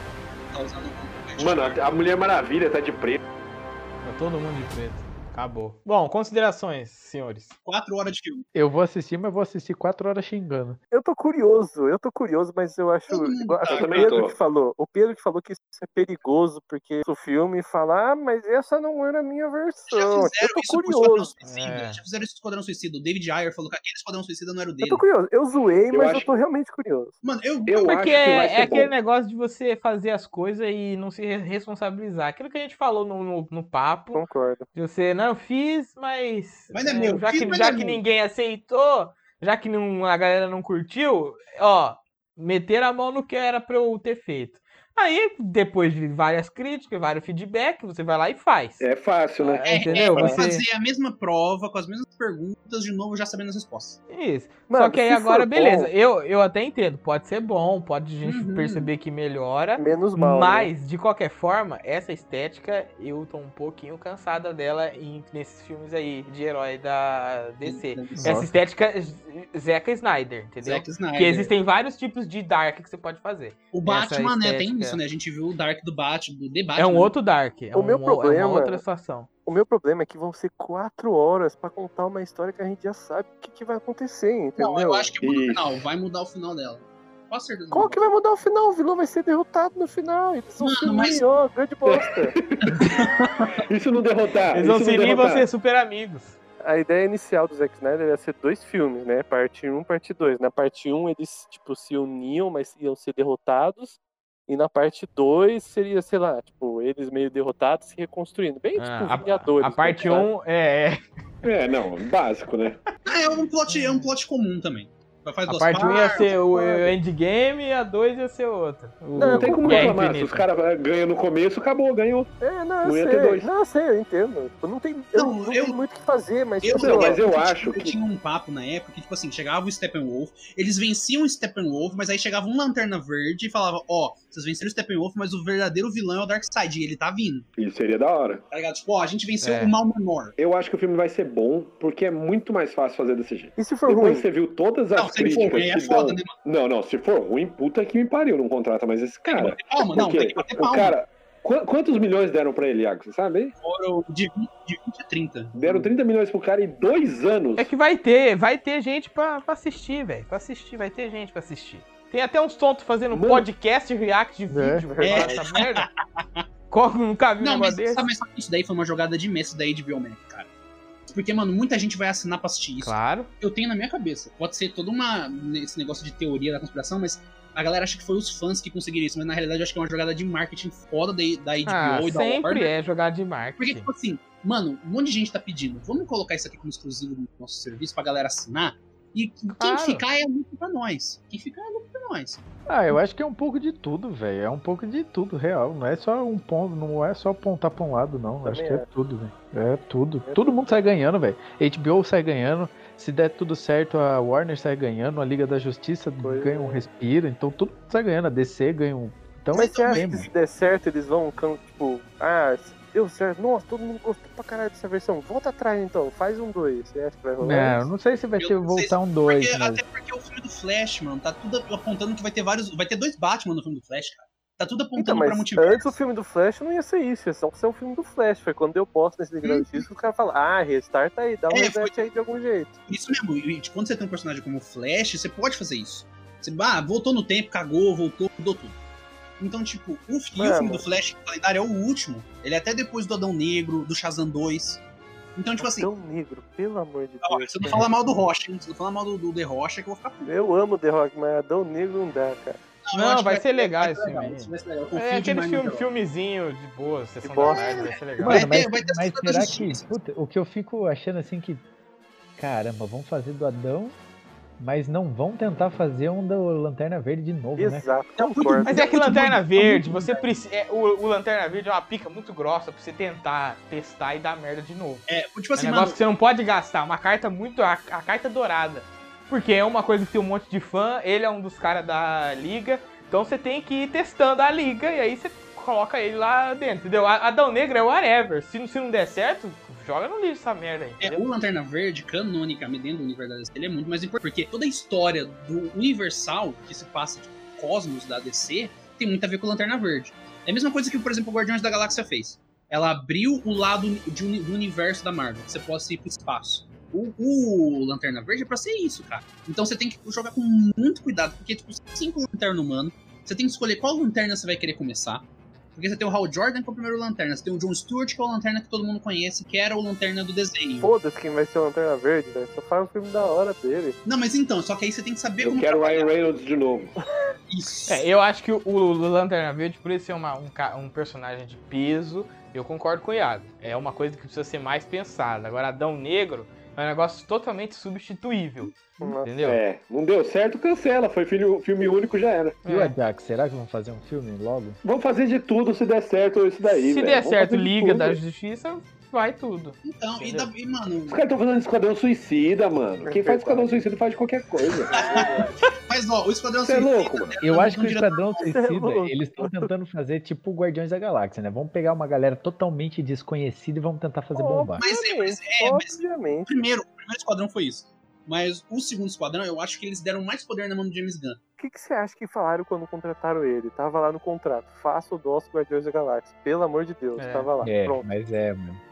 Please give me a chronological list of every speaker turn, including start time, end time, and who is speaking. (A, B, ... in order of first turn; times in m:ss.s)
0:00.5-0:01.8 A
0:01.4-0:03.2 B
0:04.0-0:07.5 C
0:07.6-0:08.4 A
0:08.5-0:10.8 D
0:10.9-0:21.3 E
0:13.1-0:14.2 A
0:13.7-0:14.4 B
0:19.9-0:25.0 A
0:21.4-0:22.0 C
0:24.8-0:27.1 E
0:25.9-0:26.3 B
0:27.2-0:28.0 A
0:27.6-0:28.9 B
0:27.8-0:34.2 C
0:34.1-0:34.6 E
0:34.7-0:50.6 C
0:36.7-0:38.0 A
0:48.8-0:49.6 B
0:49.6-0:54.0 A
0:49.9-0:50.4 E
0:54.1-1:15.0 C
0:54.7-0:55.7 E
0:55.6-0:55.9 B
0:58.2-0:58.9 A
0:59.8-1:00.7 E
1:07.6-1:08.4 A
1:08.2-1:08.5 D
1:10.6-1:11.5 A
1:13.7-1:17.1 A
1:16.8-1:19.3 C
1:17.7-1:18.8 E
1:19.4-1:25.1 E
1:24.6-1:28.1 A
1:25.2-1:25.8 B
1:27.7-1:32.4 E
1:30.6-1:31.2 A
1:31.8-1:32.8 B
1:32.6-1:33.6 A
1:33.7-1:35.5 B
1:34.5-1:36.4 C
1:36.6-1:50.3 E
1:48.8-1:51.0 C
1:51.4-1:52.8 B
1:53.0-1:56.3 A
1:53.7-1:54.1 C
1:55.5-2:00.5 C
1:56.2-1:56.9 E
1:59.2-1:59.9 E
1:59.3-2:02.3 B
2:02.4-2:07.2 E
2:02.8-2:03.5 B
2:05.1-2:05.8 A
2:06.6-2:17.5 A
2:06.7-2:08.0 B
2:17.6-2:18.4 B
2:18.5-2:20.3 A
2:19.4-2:19.7 C
2:20.4-2:33.5 B
2:23.6-2:24.2 E
2:24.9-2:26.3 A
2:29.3-2:31.0 A
2:33.6-2:35.5 A
2:35.5-2:37.7 B
2:35.6-2:35.9 D
2:37.6-2:45.9 C
2:43.1-2:43.5 B
2:44.5-2:44.9 D
2:44.8-2:45.4 E
2:45.0-2:46.4 A
2:46.7-2:48.1 C
2:47.4-2:50.5 A
2:51.1-3:02.7 A
2:52.8-2:53.3 C
3:01.6-3:03.8 C
3:03.6-3:12.4 A
3:09.6-3:10.0 C
3:12.7-3:30.3 D
3:18.4-3:18.9 E
3:20.2-3:20.8 E
3:26.2-3:26.8 E
3:29.5-3:30.3 A
3:29.5-3:37.8 E
3:37.4-3:39.8 D
3:38.4-3:46.0 A
3:45.0-3:52.7 E
3:49.4-3:49.8 A
3:51.5-3:52.0 A
3:52.9-3:58.8 A
3:59.4-4:04.8 A
4:00.4-4:00.8 E
4:05.4-4:05.9 A
4:05.6-4:07.9 E
4:07.2-4:10.3 A
4:10.3-4:12.6 E
4:12.9-4:15.8 A
4:12.9-4:18.5 C
4:17.2-4:17.8 E
4:17.4-4:19.9 A
4:18.2-4:21.6 D
4:22.4-4:24.0 D
4:24.6-4:28.0 D
4:27.6-4:28.9 E
4:28.2-4:30.2 A
4:28.6-4:35.0 C
4:35.1-4:36.0 A
4:35.6-4:51.0 C
4:51.0-4:51.3 E
4:51.0-5:20.9 A
5:20.8-5:24.0 E
5:24.0-5:26.2 A
5:25.4-5:26.9 B
5:27.5-5:28.0 A
5:27.9-5:39.6 C
5:39.0-5:39.2 E
5:39.4-5:42.6 B
5:42.6-5:42.9 C
5:42.6-5:44.8 D
5:44.8-5:48.2 B
5:46.6-5:50.5 C
5:49.8-5:51.2 A
5:51.1-5:55.5 B
5:53.0-5:53.7 E
5:54.9-5:58.6 A
5:56.6-5:57.4 B
5:57.4-6:04.8 D
5:58.3-5:59.7 E
6:04.3-6:06.5 E
6:04.8-6:11.4 A
6:11.6-6:18.1 E
6:17.2-6:17.5 C
6:17.6-6:18.8 D